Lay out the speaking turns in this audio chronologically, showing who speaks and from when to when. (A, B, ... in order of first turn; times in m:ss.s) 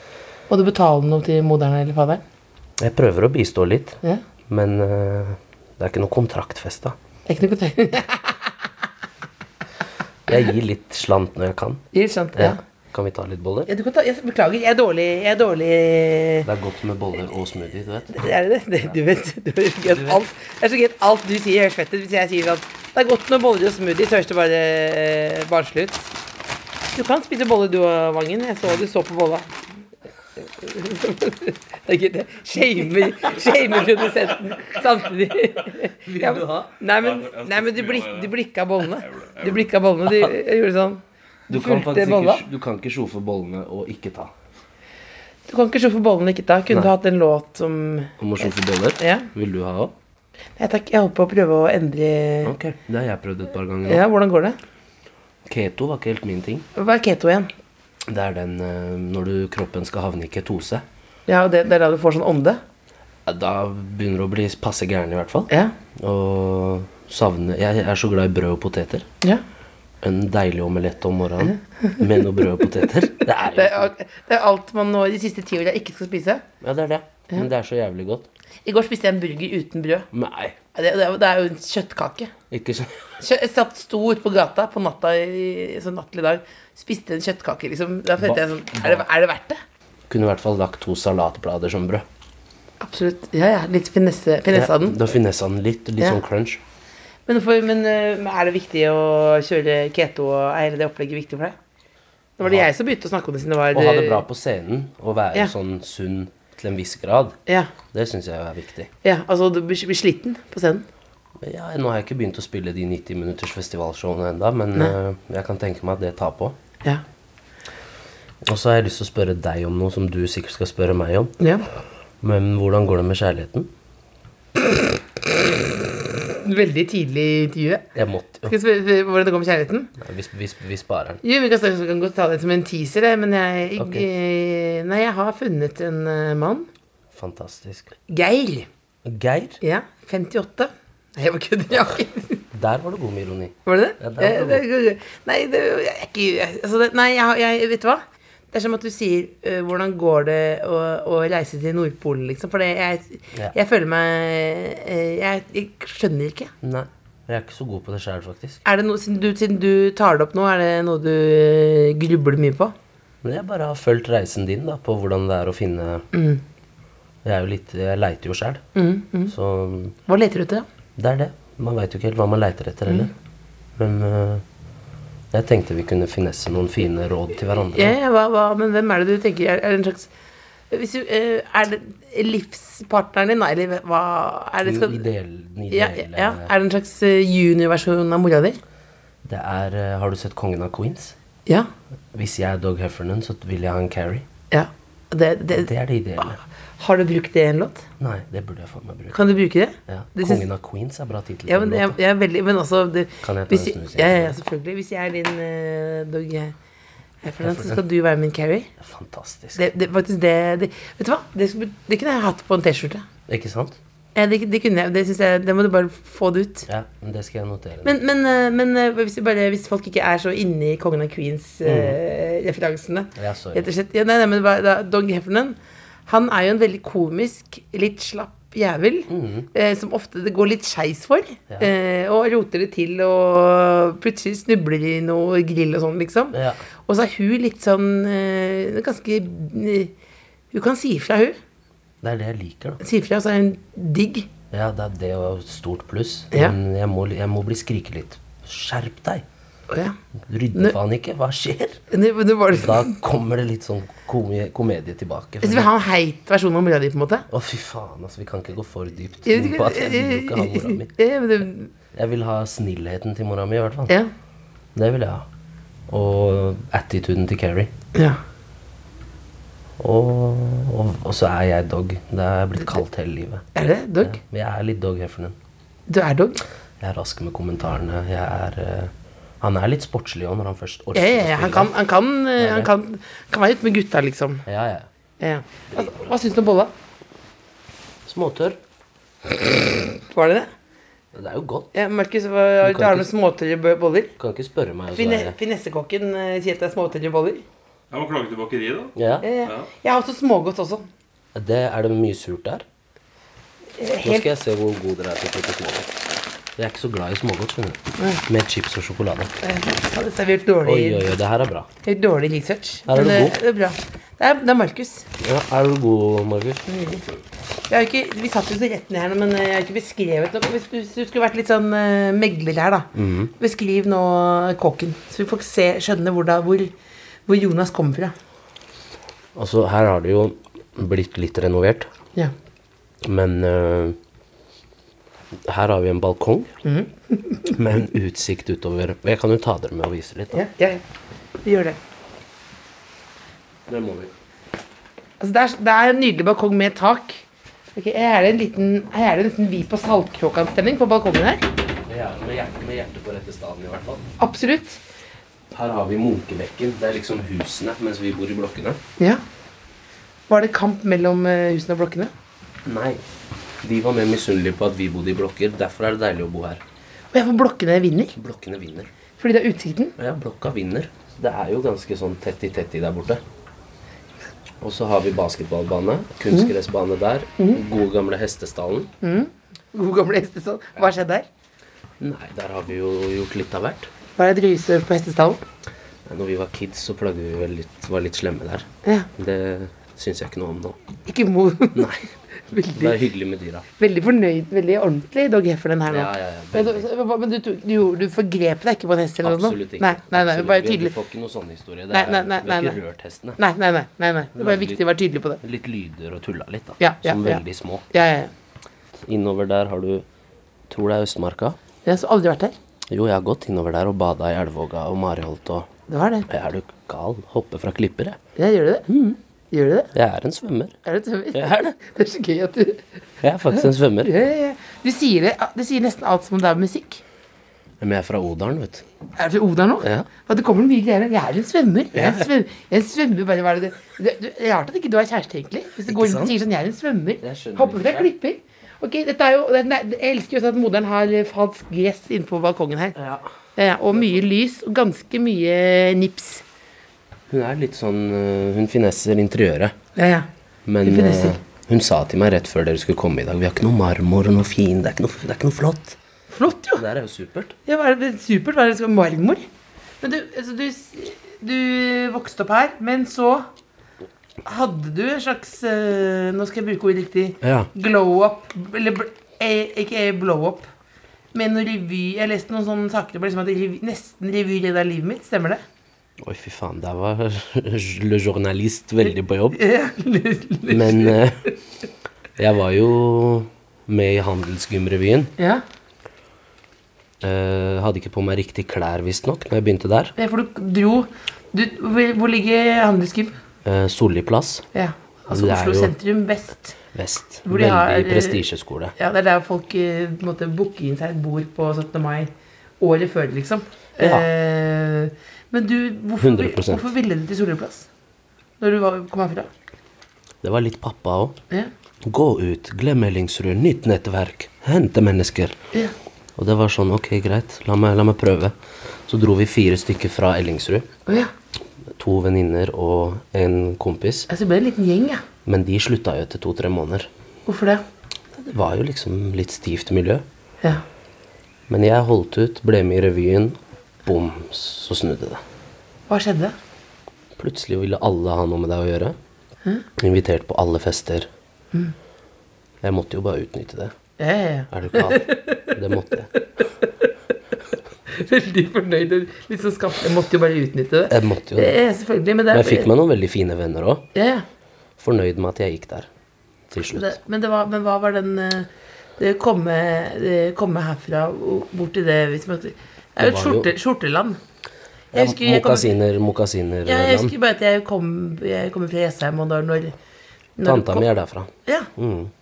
0:00.5-0:02.2 A
0:02.8-0:07.0 B
0:07.3-0:08.5 A
0:10.3-0:11.8 B
0:11.9-0:12.6 A
0:12.4-0:13.7 B
0:13.7-0:16.5 A
0:16.4-0:18.2 B
0:18.1-0:26.1 A
0:19.8-0:20.2 B
0:26.9-0:29.5 A
0:30.6-0:42.4 A
0:36.1-0:36.7 B
0:37.0-0:38.3 C
0:39.0-0:39.7 C
0:41.5-0:44.3 B
0:45.5-0:48.1 A
0:48.2-0:49.9 B
0:49.0-0:49.3 A
0:50.6-0:52.5 A
0:52.4-0:54.0 B
0:53.9-0:54.6 A
0:55.5-0:56.7 B
0:56.8-0:57.5 A
0:58.1-1:00.8 B
1:01.3-1:02.6 A
1:03.3-1:09.1 B
1:10.0-1:13.9 B
1:11.4-1:12.0 A
1:13.5-1:16.4 A
1:16.6-1:18.3 B
1:18.6-1:20.1 A
1:20.1-1:20.6 B
1:20.7-1:22.3 A
1:22.5-1:23.1 B
1:23.2-1:29.6 A
1:28.2-1:29.0 B
1:30.1-1:32.1 B
1:32.8-1:35.0 A
1:34.5-1:36.6 B
1:37.3-1:41.6 A
1:42.4-1:44.3 A
1:42.4-1:42.7 B
1:43.7-1:47.4 B
1:47.9-1:48.9 B
1:49.0-1:50.9 A
1:51.4-1:56.6 B
1:58.4-2:01.3 B
2:01.4-2:01.6 A
2:02.2-2:03.7 B
2:05.6-2:07.9 A
2:08.0-2:08.5 B
2:08.5-2:09.9 A
2:10.0-2:11.2 B
2:11.2-2:16.7 A
2:13.8-2:14.1 B
2:17.1-2:17.9 B
2:18.1-2:18.7 A
2:19.0-2:19.6 B
2:19.6-2:22.4 A
2:22.5-2:24.6 B
2:23.7-2:36.5 A
2:36.6-2:38.6 B
2:38.6-2:42.7 A
2:43.2-2:46.1 B
2:46.1-2:46.4 A
2:47.2-2:48.6 B
2:48.8-2:49.3 A
2:49.3-2:50.0 B
2:50.1-2:50.7 A
2:51.0-2:53.1 B
2:53.8-2:54.4 B
2:55.3-2:58.0 B
2:57.7-3:00.1 A
3:00.7-3:05.0 A
3:04.6-3:06.5 B
3:05.7-3:08.6 A
3:09.2-3:11.2 B
3:12.1-3:14.2 B
3:14.5-3:15.7 A
3:15.5-3:16.4 B
3:16.2-3:17.9 A
3:18.0-3:19.3 B
3:19.1-3:20.4 A
3:19.9-3:22.0 B
3:21.5-3:26.6 A
3:23.2-3:24.4 B
3:27.2-3:28.7 A
3:27.4-3:27.8 B
3:28.8-3:29.6 B
3:29.6-3:33.0 A
3:33.3-3:33.8 B
3:34.2-3:36.7 A
3:36.7-3:38.0 B
3:37.8-3:59.9 A
3:41.6-3:42.0 B
3:43.2-3:43.7 B
3:49.1-3:49.5 B
3:56.3-3:56.6 B
4:00.5-4:01.4 A
4:02.0-4:02.8 B
4:02.8-4:04.3 A
4:04.5-4:09.2 B
4:09.7-4:10.0 A
4:10.3-4:11.8 B
4:11.9-4:13.0 A
4:12.5-4:15.7 B
4:15.4-4:17.3 A
4:17.3-4:20.9 B
4:19.3-4:21.7 A
4:21.9-4:24.0 B
4:24.8-4:25.3 B
4:25.9-4:27.7 B
4:29.8-4:33.5 B
4:33.6-4:34.2 A
4:34.0-4:35.4 B
4:35.9-4:36.4 A
4:36.8-4:41.7 B
4:41.0-4:44.4 A
4:42.4-4:42.7 B
4:44.5-4:44.9 B
4:45.2-4:46.7 A
4:45.7-4:46.1 B
4:48.1-4:48.6 B
4:49.4-4:50.5 A
4:51.1-4:51.7 B
4:51.7-4:54.1 A
4:52.6-4:53.1 B
4:54.2-4:55.4 B
4:54.9-4:57.4 A
4:57.9-4:59.7 C
4:59.0-4:59.3 B
4:59.2-5:00.9 A
5:01.4-5:02.6 B
5:03.8-5:04.3 A
5:04.0-5:05.9 B
5:06.6-5:09.3 B
5:09.4-5:11.2 A
5:10.6-5:11.7 B
5:11.8-5:15.1 A
5:12.9-5:13.4 B
5:15.2-5:16.6 B
5:16.7-5:17.0 A
5:17.7-5:26.7 A
5:22.9-5:23.3 B
5:27.3-5:28.2 A
5:29.4-5:31.9 B
5:33.0-5:34.0 B
5:35.5-5:36.5 B
5:36.6-5:37.6 A
5:37.5-5:40.5 B
5:40.3-5:40.8 A
5:41.4-5:41.8 A
5:43.7-5:44.1 B
5:45.2-5:47.2 A
5:47.8-5:51.4 A
5:51.9-5:54.1 B
5:54.2-5:54.8 A
5:55.5-5:58.8 B
6:00.3-6:02.1 A
6:02.6-6:03.0 B
6:03.6-6:06.6 B
6:07.1-6:08.2 A
6:08.1-6:08.9 B
6:09.2-6:10.0 A
6:10.0-6:13.2 B
6:14.6-6:18.9 B
6:19.0-6:21.3 A
6:22.0-6:23.9 B
6:24.2-6:25.4 A
6:26.1-6:30.8 B
6:31.1-6:33.0 A
6:31.7-6:32.1 B
6:32.7-6:33.7 B
6:33.8-6:41.0 A
6:35.9-6:36.9 B
6:39.2-6:43.4 B
6:41.9-6:42.8 A
6:43.4-6:45.4 A
6:44.4-6:44.8 B
6:45.4-6:47.9 B
6:46.8-6:48.3 A
6:49.0-6:50.1 B
6:50.7-6:51.6 B
6:51.8-6:52.6 A
6:52.9-6:55.7 B
6:55.9-6:56.3 A
6:56.3-6:58.2 B
6:58.4-6:58.9 A
6:58.9-6:59.2 B
6:59.5-6:59.9 A
6:59.9-7:00.8 B
7:00.8-7:02.9 A
7:01.3-7:01.8 B
7:03.2-7:04.1 B
7:03.5-7:07.0 A
7:07.8-7:08.9 B
7:09.2-7:23.0 A
7:09.8-7:10.1 B
7:11.9-7:12.3 B
7:15.9-7:16.4 B
7:17.2-7:18.1 B
7:23.0-7:23.3 B
7:23.6-7:26.4 A
7:27.3-7:29.8 B
7:30.0-7:30.3 A
7:30.7-7:36.0 B
7:30.8-7:31.4 A
7:36.3-7:36.8 A
7:36.7-7:37.6 B
7:37.7-7:39.4 A
7:40.0-7:43.5 A
7:44.4-7:50.7 A
7:47.4-7:47.7 B
7:51.3-7:55.6 A
7:56.2-7:59.6 B
7:59.5-8:01.2 A
8:00.7-8:01.4 B
8:02.4-8:05.3 B
8:05.4-8:05.6 A
8:07.2-8:10.2 B
8:10.2-8:13.4 A
8:13.6-8:14.7 B
8:14.7-8:16.8 A
8:15.3-8:15.9 B
8:16.9-8:19.0 B
8:17.5-8:27.9 A
8:24.0-8:24.3 B
8:26.2-8:26.9 B
8:28.6-8:29.5 A
8:30.4-8:31.4 B
8:32.0-8:35.6 B
8:36.4-8:38.5 B
8:39.1-8:40.9 B
8:42.0-8:44.3 B
8:44.3-8:45.2 A
8:45.5-8:47.1 B
8:47.5-8:47.8 A
8:48.3-8:50.2 B
8:51.7-8:55.4 B
8:56.1-8:56.6 A
8:57.4-8:59.2 B
9:00.0-9:01.3 B
9:02.8-9:03.9 B
9:04.2-9:05.7 A
9:04.7-9:06.3 B
9:06.8-9:07.1 A
9:08.1-9:12.9 A
9:11.1-9:11.8 B
9:12.5-9:14.1 B
9:14.2-9:14.4 A
9:15.0-9:16.1 B
9:16.7-9:17.2 B
9:16.9-9:24.4 A
9:23.2-9:23.7 B
9:25.1-9:25.9 A
9:25.1-9:27.3 B
9:26.9-9:30.0 A
9:30.6-9:31.1 A
9:30.6-9:32.3 B